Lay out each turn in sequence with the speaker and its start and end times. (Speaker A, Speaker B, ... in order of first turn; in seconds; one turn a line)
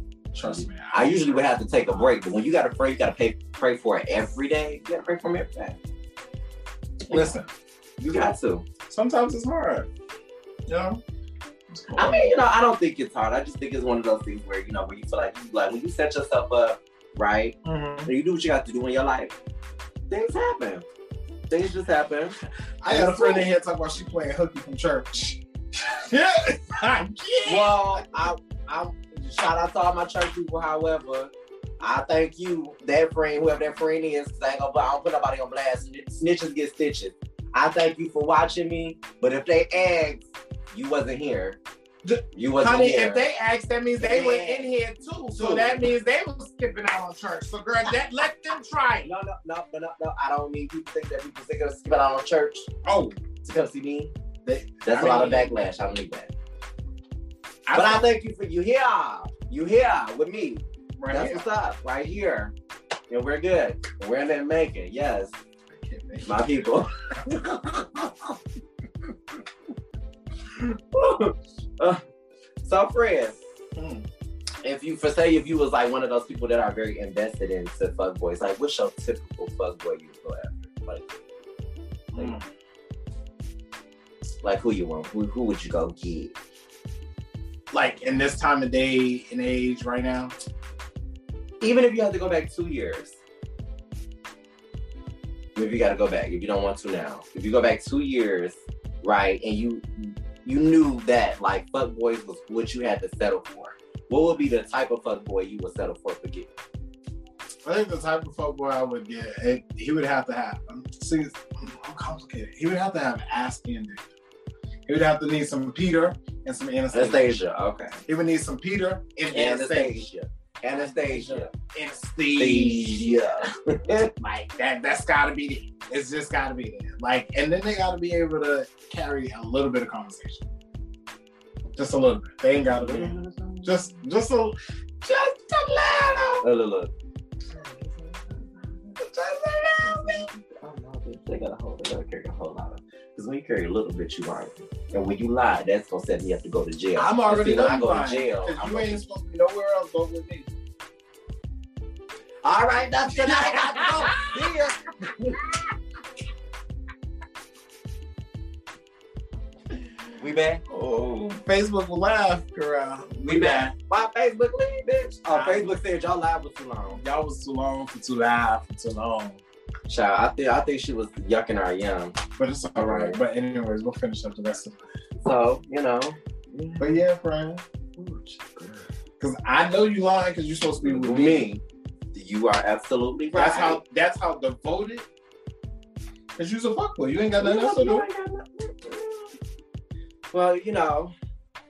Speaker A: 0.3-1.7
Speaker B: 0.4-5.8
Speaker B: 7.1-7.4
Speaker A: 7.1-7.5
Speaker B: 8.0-8.7
Speaker A: 8.9-9.9
Speaker A: 10.7-11.0
Speaker A: 11.7-12.3
Speaker B: 11.9-19.3
Speaker A: 17.6-18.1
Speaker B: 20.1-20.9
Speaker B: 21.5-23.5
Speaker A: 22.8-28.1
Speaker B: 27.4-41.6
Speaker A: 42.0-49.1
Speaker B: 42.4-43.2
Speaker B: 44.0-44.7
Speaker B: 45.4-45.9
Speaker B: 49.0-52.7
Speaker A: 52.9-53.2
Speaker B: 53.5-54.1
Speaker A: 54.5-55.6
Speaker B: 54.9-56.3
Speaker A: 57.7-58.1
Speaker B: 57.7-62.5
Speaker A: 61.0-61.5
Speaker B: 63.1-65.3
Speaker A: 65.7-66.7
Speaker B: 66.2-67.0
Speaker A: 67.2-68.3
Speaker B: 70.6-72.0
Speaker B: 72.6-73.4
Speaker A: 73.8-74.1
Speaker B: 74.6-81.1
Speaker A: 82.1-82.5
Speaker B: 84.4-86.3
Speaker A: 87.7-90.3
Speaker B: 91.6-93.2
Speaker B: 95.6-106.5
Speaker A: 107.7-114.1
Speaker A: 114.9-117.4
Speaker B: 116.9-118.0
Speaker A: 118.1-120.1
Speaker B: 119.3-121.5
Speaker A: 120.7-123.3
Speaker B: 122.4-124.1
Speaker A: 124.2-130.5
Speaker A: 131.8-136.5
Speaker B: 132.7-133.9
Speaker B: 136.4-136.9
Speaker B: 137.5-149.0
Speaker A: 139.0-140.3
Speaker A: 147.0-150.5
Speaker B: 152.4-155.4
Speaker A: 153.2-154.7
Speaker B: 160.2-160.7
Speaker A: 160.7-163.7
Speaker B: 163.3-167.0
Speaker A: 165.3-165.8
Speaker A: 167.0-169.4
Speaker B: 169.9-172.2
Speaker A: 172.4-174.8
Speaker B: 172.8-173.2
Speaker B: 175.2-177.0
Speaker A: 176.8-177.6
Speaker B: 178.0-178.9
Speaker A: 179.2-181.5
Speaker B: 180.8-181.6
Speaker B: 182.1-183.8
Speaker A: 183.3-185.1
Speaker A: 186.4-188.1
Speaker B: 187.4-189.3
Speaker B: 190.3-191.1